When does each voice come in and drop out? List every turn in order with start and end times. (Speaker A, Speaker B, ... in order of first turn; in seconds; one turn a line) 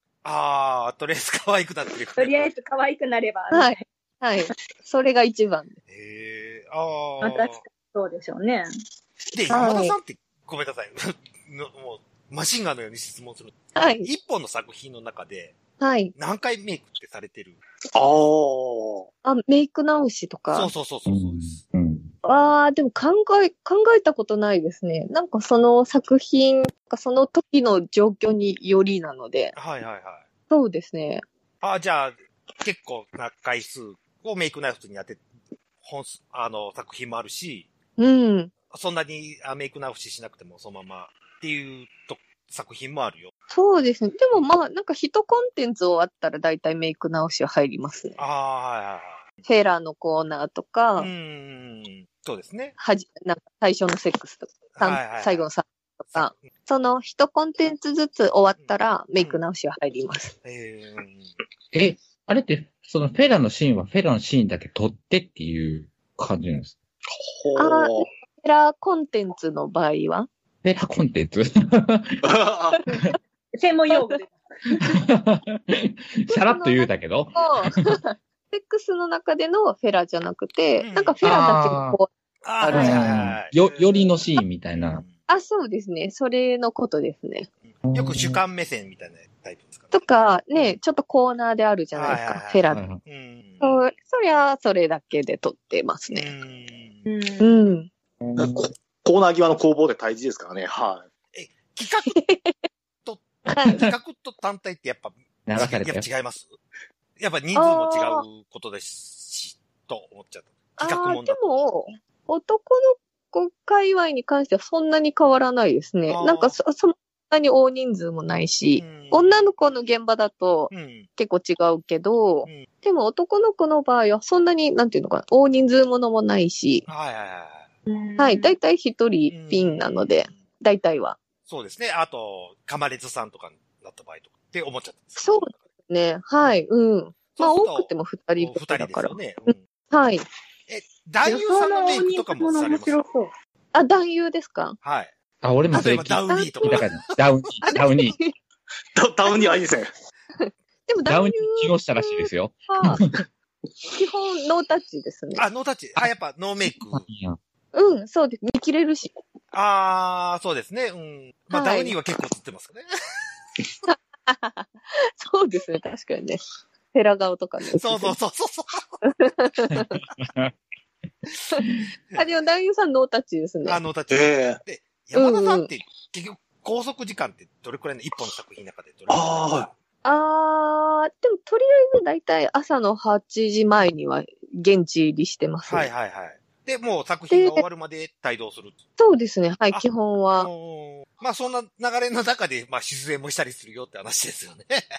Speaker A: 0.2-2.5
Speaker B: 2.2-3.8
Speaker C: 3.5-5.7
Speaker A: 5.9-7.6
Speaker B: 7.2-8.7
Speaker A: 9.3-15.6
Speaker C: 9.5-10.0
Speaker C: 13.8-14.1
Speaker C: 15.8-16.1
Speaker A: 16.1-17.6
Speaker D: 17.9-19.1
Speaker C: 19.2-20.7
Speaker A: 20.5-21.6
Speaker E: 21.1-22.1
Speaker C: 22.2-29.6
Speaker A: 29.5-30.2
Speaker C: 30.5-31.2
Speaker A: 31.6-35.2
Speaker A: 35.8-37.7
Speaker C: 38.0-38.5
Speaker A: 38.7-43.3
Speaker C: 43.5-48.2
Speaker A: 48.2-49.2
Speaker C: 49.4-51.1
Speaker A: 51.0-52.7
Speaker C: 52.8-60.3
Speaker A: 54.8-55.4
Speaker A: 56.1-56.5
Speaker A: 58.5-59.4
Speaker A: 60.4-61.3
Speaker E: 61.7-66.8
Speaker D: 67.3-68.1
Speaker C: 67.5-70.3
Speaker E: 70.6-72.2
Speaker D: 72.2-72.8
Speaker B: 73.6-74.8
Speaker C: 73.9-74.2
Speaker E: 74.8-77.8
Speaker C: 76.3-82.1
Speaker A: 80.8-81.2
Speaker E: 81.2-82.0
Speaker A: 82.4-83.5
Speaker C: 82.6-83.1
Speaker E: 82.7-85.0
Speaker A: 84.7-85.1
Speaker C: 85.3-87.5
Speaker E: 87.9-88.4
Speaker A: 87.9-90.0
Speaker C: 89.9-92.8
Speaker A: 91.9-93.7
Speaker E: 92.7-93.0
Speaker C: 93.6-96.3
Speaker A: 96.1-97.0
Speaker B: 97.0-97.5
Speaker C: 97.4-97.9
Speaker E: 98.2-98.7
Speaker D: 98.3-101.0
Speaker A: 101.3-102.2
Speaker C: 102.1-102.5
Speaker A: 103.0-106.6
Speaker C: 103.5-103.9
Speaker E: 105.5-106.0
Speaker A: 107.2-111.7
Speaker C: 107.5-108.2
Speaker C: 110.8-126.8
Speaker A: 116.1-116.6
Speaker A: 118.8-119.5
Speaker A: 120.7-121.1
Speaker A: 126.9-127.7
Speaker B: 127.9-128.5
Speaker C: 128.2-131.2
Speaker A: 129.3-130.4
Speaker A: 131.4-135.6
Speaker C: 135.2-140.2
Speaker A: 137.3-139.6
Speaker A: 140.7-143.0
Speaker B: 141.2-143.3
Speaker C: 143.7-144.8
Speaker A: 144.8-145.1
Speaker E: 145.4-148.2
Speaker A: 145.7-147.4
Speaker C: 146.3-146.8
Speaker C: 147.6-148.3
Speaker D: 148.9-149.9
Speaker C: 149.2-149.6
Speaker C: 150.4-153.0
Speaker E: 151.1-153.1
Speaker C: 153.9-155.4
Speaker A: 155.3-157.1
Speaker E: 156.9-157.4
Speaker C: 157.7-159.1
Speaker A: 159.5-162.8
Speaker C: 161.5-161.9
Speaker C: 163.9-168.2
Speaker A: 167.8-168.8
Speaker C: 169.1-170.1
Speaker E: 169.7-170.5
Speaker C: 172.1-173.8
Speaker A: 173.6-179.5
Speaker D: 174.1-174.6
Speaker C: 175.1-175.7
Speaker D: 179.1-179.7
Speaker C: 180.0-185.9
Speaker A: 185.7-188.8
Speaker C: 187.3-187.6
Speaker C: 189.0-190.5
Speaker A: 189.7-194.8